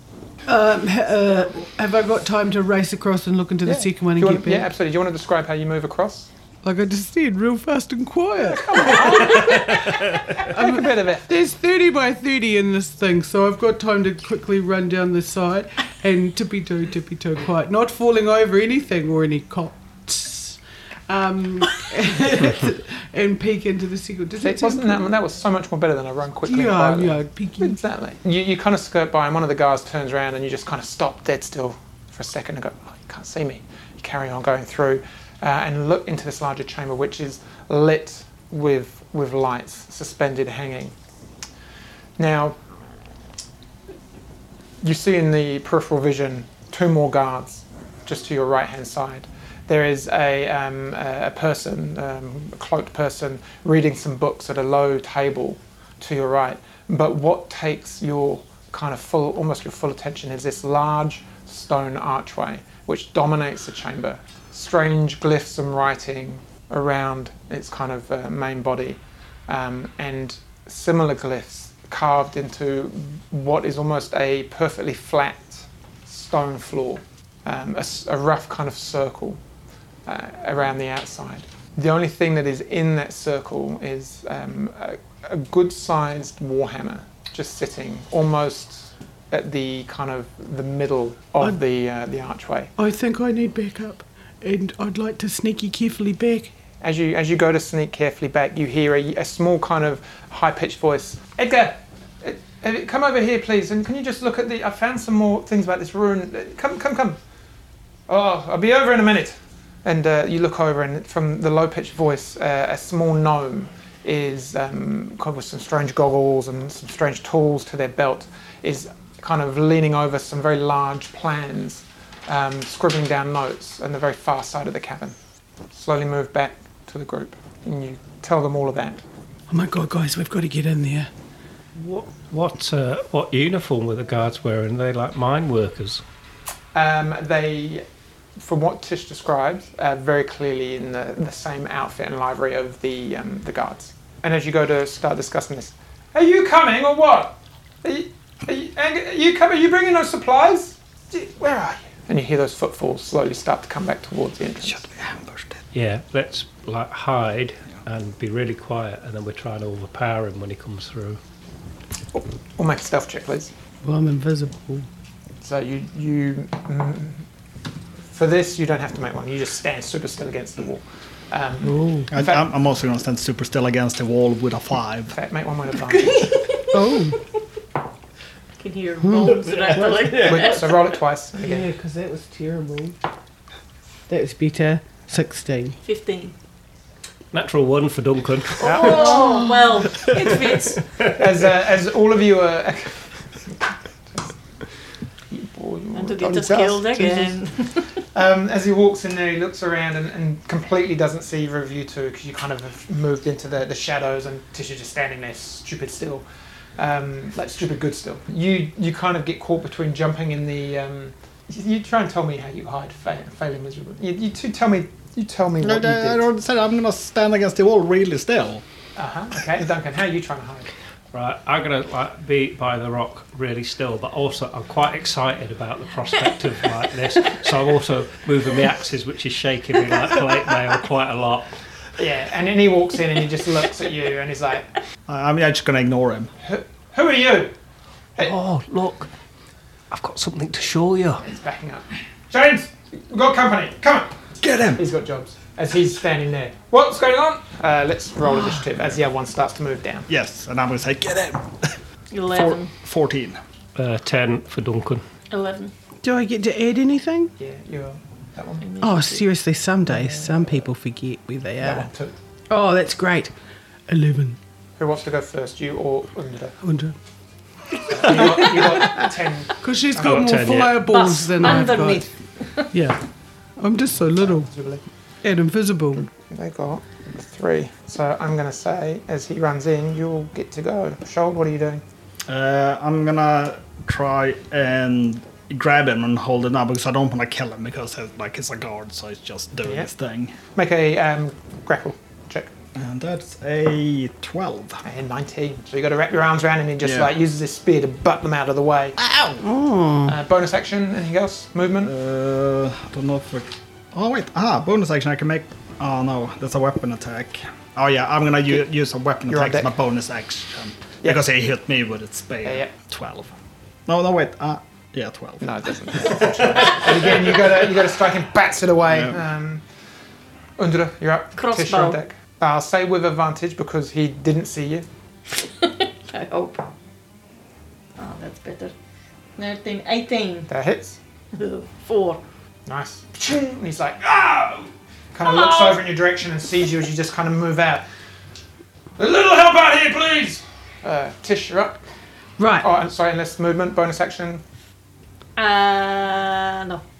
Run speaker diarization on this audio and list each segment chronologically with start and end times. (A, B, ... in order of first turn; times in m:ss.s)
0:00.4-0:04.7 A
0:03.6-0:06.3 B
0:06.6-0:25.1 A
0:08.4-0:11.3 B
0:24.4-0:40.9 B
0:26.4-0:27.8 A
0:42.2-0:42.6 B
0:44.8-1:19.4 B
1:20.1-1:32.7 B
1:32.8-1:36.5 A
1:36.8-1:47.2 B
1:48.1-2:05.1 B
2:05.7-2:09.0 B
2:09.5-2:11.1 A
2:11.8-2:16.0 C
2:16.7-2:17.8 B
2:18.4-2:34.9 B
2:34.6-2:35.6 D
2:35.7-2:41.2 C
2:42.1-2:43.5 B
2:43.8-2:44.9 A
2:45.4-2:47.2 B
2:48.1-2:52.5 B
2:51.7-2:52.1 A
2:52.1-2:55.1 D
2:55.1-2:56.5 B
2:56.1-2:57.2 A
2:56.3-2:56.8 E
2:58.6-3:01.0 E
2:59.0-3:00.3 A
3:00.1-3:01.7 B
3:01.4-3:03.0 A
3:04.1-3:05.8 A
3:05.8-3:06.3 E
3:07.3-3:08.9 C
3:08.6-3:10.8 E
3:08.6-3:09.1 B
3:08.8-3:09.8 A
3:10.0-3:11.1 C
3:11.1-3:13.5 B
3:15.3-3:26.2 B
3:15.9-3:17.9 E
3:26.8-3:36.3 B
3:35.6-3:38.6 D
3:39.0-3:40.7 B
3:41.1-3:51.5 C
3:52.0-3:54.7 B
3:55.0-3:56.3 D
3:56.4-3:57.5 B
3:58.2-3:59.1 C
3:59.9-4:01.2 C
4:01.2-4:04.2 B
4:04.4-4:04.8 D
4:04.7-4:10.1 B
4:10.1-4:11.8 D
4:12.1-4:12.7 E
4:12.3-4:13.4 D
4:13.8-4:15.0 C
4:15.3-4:15.7 E
4:16.0-4:17.3 A
4:17.4-4:18.6 B
4:18.6-4:19.2 E
4:18.8-4:21.9 A
4:19.9-4:20.7 B
4:21.6-4:22.2 B
4:22.5-4:23.3 A
4:23.9-4:24.4 A
4:24.8-4:26.6 B
4:26.6-4:27.0 A
4:27.8-4:29.1 A
4:27.9-4:30.3 B
4:29.6-4:32.1 A
4:30.0-4:31.0 C
4:30.8-4:32.7 E
4:32.7-4:33.0 A
4:33.6-4:34.5 A
4:34.2-4:34.8 B
4:35.2-4:36.0 A
4:36.0-4:41.8 B
4:42.3-4:50.4 D
4:49.6-4:49.9 B
4:50.5-4:52.5 B
4:52.7-4:54.8 D
4:54.8-4:59.4 B
4:56.8-4:57.2 D
4:59.4-5:00.2 A
5:00.0-5:01.9 B
5:01.8-5:13.3 D
5:09.3-5:09.7 B
5:12.4-5:12.7 B
5:13.8-5:17.0 D
5:15.4-5:19.6 B
5:18.9-5:19.2 D
5:20.6-5:24.8 B
5:21.3-5:22.0 E
5:25.3-5:26.6 E
5:28.0-5:28.7 E
5:29.4-5:30.5 E
5:30.5-5:31.0 B
5:31.3-5:32.2 E
5:32.7-5:37.8 B
5:35.2-5:35.8 E
5:39.0-5:41.8 B
5:42.4-5:42.7 A
5:42.6-5:44.4 B
5:45.4-5:46.8 E